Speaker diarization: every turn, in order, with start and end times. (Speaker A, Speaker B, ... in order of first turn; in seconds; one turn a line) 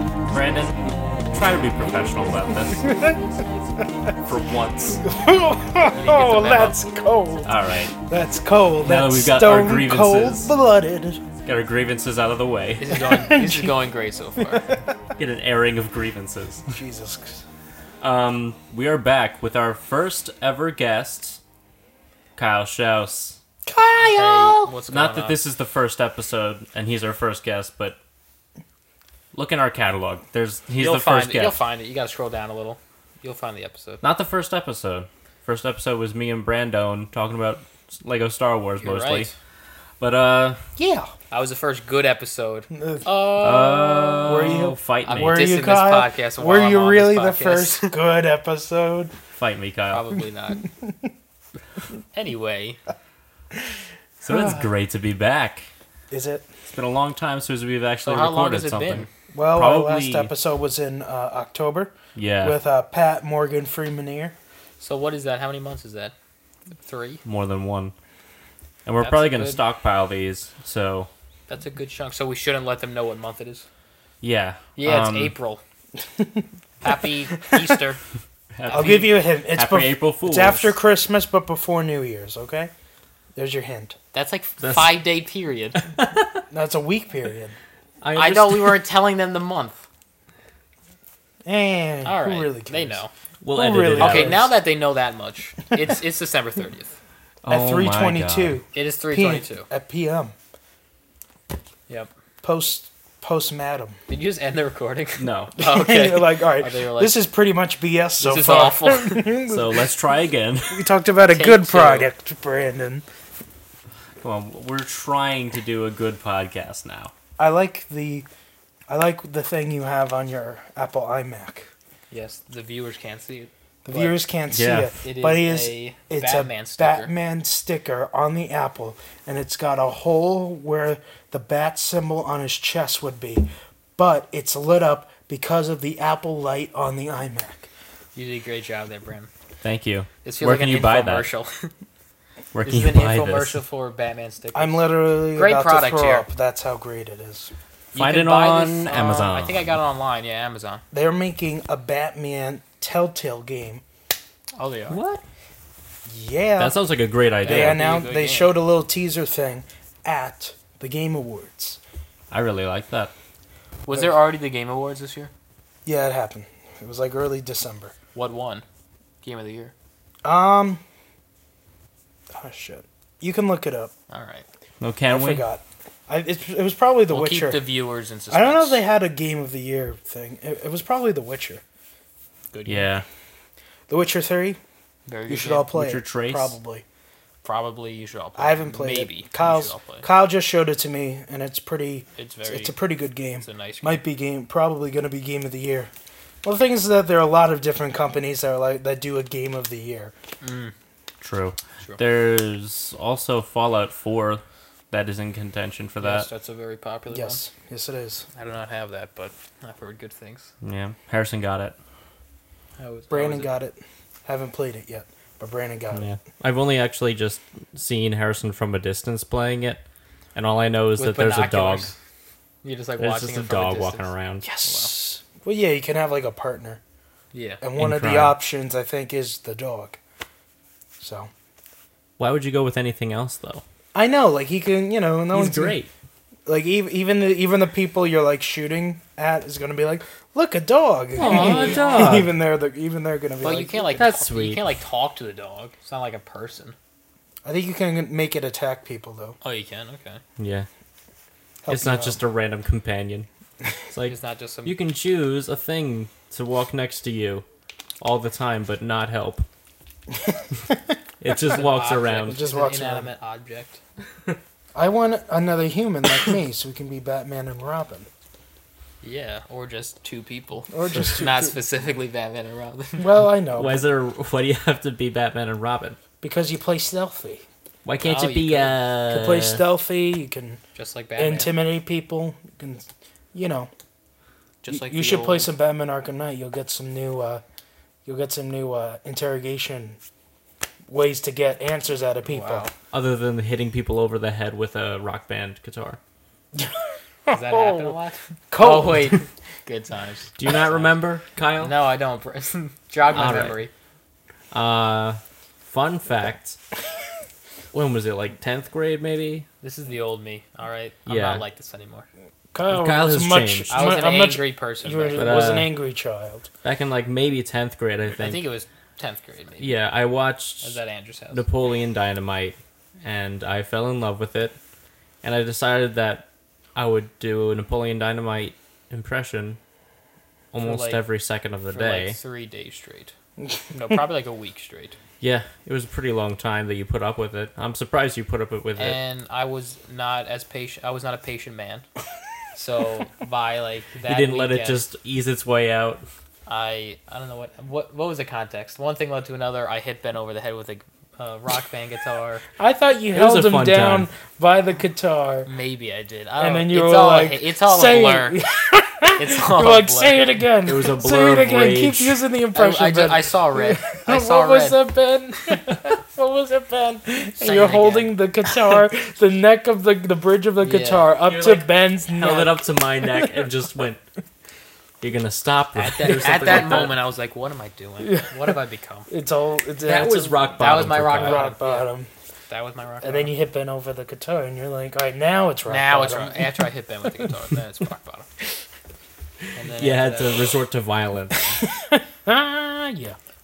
Speaker A: 0.2-2.8
Speaker B: 2.7-4.2
Speaker A: 4.2-5.0
Speaker B: 5.0-11.2
Speaker C: 5.9-6.8
Speaker A: 7.4-7.9
Speaker A: 8.8-10.5
Speaker A: 11.4-13.0
Speaker C: 12.8-14.7
Speaker B: 13.0-13.7
Speaker B: 14.5-14.8
Speaker A: 15.2-16.7
Speaker B: 16.7-17.4
Speaker A: 18.0-21.4
Speaker A: 22.4-23.4
Speaker B: 23.6-24.7
Speaker C: 23.9-25.4
Speaker A: 24.9-28.0
Speaker A: 29.3-31.6
Speaker C: 30.8-34.0
Speaker A: 34.0-39.3
Speaker C: 38.8-39.3
Speaker A: 40.0-40.6
Speaker B: 40.8-41.1
Speaker C: 41.3-48.0
Speaker B: 42.7-43.0
Speaker A: 43.4-45.4
Speaker B: 44.2-49.1
Speaker A: 49.3-50.1
Speaker C: 49.9-50.6
Speaker B: 50.8-51.1
Speaker C: 52.1-52.8
Speaker A: 54.2-55.7
Speaker B: 56.1-56.5
Speaker A: 56.7-60.3
Speaker C: 58.0-59.1
Speaker B: 59.3-64.3
Speaker A: 62.1-62.6
Speaker C: 64.8-66.1
Speaker C: 66.8-67.2
Speaker A: 67.2-67.9
Speaker A: 68.8-71.1
Speaker C: 69.0-69.6
Speaker C: 71.5-73.7
Speaker A: 74.2-75.3
Speaker C: 74.8-75.6
Speaker B: 76.2-76.5
Speaker C: 76.8-78.0
Speaker A: 78.5-80.8
Speaker C: 78.6-79.1
Speaker B: 78.7-82.7
Speaker B: 83.3-84.0
Speaker C: 84.1-85.8
Speaker A: 84.6-85.0
Speaker A: 85.8-86.4
Speaker B: 86.5-87.5
Speaker A: 88.0-88.8
Speaker C: 88.1-89.8
Speaker B: 91.4-93.0
Speaker C: 92.0-93.1
Speaker A: 93.4-94.5
Speaker B: 93.5-94.5
Speaker C: 93.9-97.0
Speaker A: 97.4-98.6
Speaker B: 97.5-100.3
Speaker C: 98.7-99.7
Speaker B: 102.4-104.0
Speaker C: 104.1-107.2
Speaker A: 105.2-105.5
Speaker B: 105.6-109.9
Speaker C: 108.2-109.3
Speaker A: 109.5-110.9
Speaker B: 110.7-113.0
Speaker C: 111.3-112.1
Speaker A: 114.2-117.1
Speaker B: 117.4-118.3
Speaker B: 118.9-121.7
Speaker C: 122.1-124.2
Speaker B: 123.8-137.7
Speaker A: 124.5-124.9
Speaker C: 125.0-127.1
Speaker C: 138.1-139.3
Speaker A: 139.6-141.3
Speaker C: 140.2-141.7
Speaker A: 142.5-143.6
Speaker C: 142.6-146.2
Speaker B: 144.5-147.5
Speaker A: 147.9-149.7
Speaker C: 147.9-150.8
Speaker B: 150.9-153.8
Speaker C: 154.6-155.0
Speaker A: 154.9-155.2
Speaker B: 156.1-156.8
Speaker A: 156.6-157.8
Speaker C: 157.4-158.6
Speaker B: 157.4-161.8
Speaker A: 162.3-163.1
Speaker C: 163.8-165.3
Speaker B: 165.8-167.9
Speaker C: 168.1-168.6
Speaker C: 169.2-169.7
Speaker B: 170.2-170.8
Speaker B: 172.3-173.9
Speaker C: 174.1-174.4
Speaker A: 174.8-175.4
Speaker B: 175.1-177.6
Speaker C: 177.1-178.8
Speaker B: 178.3-181.6
Speaker C: 182.5-182.9
Speaker A: 182.7-183.0
Speaker B: 183.9-184.6
Speaker C: 185.1-185.7
Speaker B: 185.3-186.8
Speaker A: 185.7-186.6
Speaker C: 187.4-190.1
Speaker B: 188.4-195.9
Speaker C: 192.2-192.8
Speaker C: 193.4-194.0
Speaker B: 196.4-200.1
Speaker C: 200.4-200.7
Speaker A: 201.2-206.3
Speaker C: 206.0-207.4
Speaker B: 207.1-208.2
Speaker C: 208.3-210.5
Speaker A: 210.6-211.8
Speaker C: 212.8-213.5
Speaker B: 213.1-216.0
Speaker A: 215.9-219.8
Speaker A: 220.3-221.9
Speaker C: 221.0-221.9
Speaker C: 222.6-224.1
Speaker A: 223.0-224.4
Speaker B: 224.4-226.8
Speaker C: 224.6-224.9
Speaker C: 227.3-227.6
Speaker B: 227.6-230.0
Speaker A: 227.8-228.4
Speaker B: 231.0-231.3
Speaker A: 232.2-233.6
Speaker B: 233.9-235.8
Speaker A: 235.3-235.9
Speaker B: 236.4-244.0
Speaker C: 241.2-242.2
Speaker A: 241.2-242.3
Speaker C: 243.4-246.8
Speaker A: 243.9-244.6
Speaker B: 247.4-249.4
Speaker C: 249.4-250.2
Speaker A: 250.4-250.7
Speaker B: 251.6-252.2
Speaker A: 251.7-253.3
Speaker A: 253.9-257.4
Speaker C: 254.1-254.8
Speaker A: 258.0-259.4
Speaker B: 260.1-260.9
Speaker A: 261.2-262.4
Speaker C: 261.5-263.8
Speaker B: 262.2-263.1
Speaker B: 264.7-268.1
Speaker C: 269.0-273.1
Speaker B: 270.7-271.5
Speaker B: 273.0-273.8
Speaker A: 273.6-276.0
Speaker B: 276.2-277.4
Speaker A: 277.8-279.6
Speaker C: 278.0-278.8
Speaker B: 279.1-280.6
Speaker C: 280.8-281.5
Speaker B: 281.2-283.7
Speaker C: 284.6-285.5
Speaker B: 284.7-287.4
Speaker B: 288.0-290.0
Speaker B: 290.9-292.7
Speaker C: 292.2-292.7
Speaker A: 292.9-296.0
Speaker B: 297.3-297.9
Speaker C: 297.3-301.0
Speaker B: 298.5-299.2
Speaker A: 300.4-301.7
Speaker C: 301.6-303.7
Speaker A: 303.1-303.6
Speaker A: 304.5-306.6
Speaker A: 307.7-309.5
Speaker C: 309.6-312.1
Speaker A: 311.1-311.4
Speaker B: 312.5-316.5
Speaker A: 312.7-313.7
Speaker C: 313.7-315.4
Speaker A: 315.1-315.7
Speaker A: 316.6-318.4
Speaker C: 318.2-319.7
Speaker A: 319.6-320.8
Speaker C: 320.6-321.4
Speaker A: 321.3-324.6
Speaker A: 325.2-329.6
Speaker A: 330.5-332.2
Speaker C: 330.6-331.0
Speaker C: 331.7-333.1
Speaker C: 333.7-335.0
Speaker A: 335.2-339.0
Speaker C: 338.8-341.9
Speaker C: 342.5-344.8
Speaker A: 344.0-346.0
Speaker C: 346.4-352.4
Speaker B: 352.6-355.5
Speaker A: 353.1-354.1
Speaker C: 355.4-358.5
Speaker B: 356.4-373.4
Speaker C: 359.1-360.3
Speaker A: 360.6-362.2
Speaker C: 362.5-364.8
Speaker C: 367.4-368.1
Speaker C: 370.6-371.1
Speaker A: 371.2-374.0
Speaker A: 375.0-377.0
Speaker C: 375.7-379.1
Speaker B: 376.2-376.6
Speaker B: 378.0-378.5
Speaker B: 379.1-382.1
Speaker A: 379.8-381.4
Speaker C: 380.6-381.9
Speaker C: 382.5-383.3
Speaker B: 383.0-386.5
Speaker C: 385.7-388.3
Speaker C: 389.5-390.6
Speaker A: 389.8-391.7
Speaker B: 391.6-393.2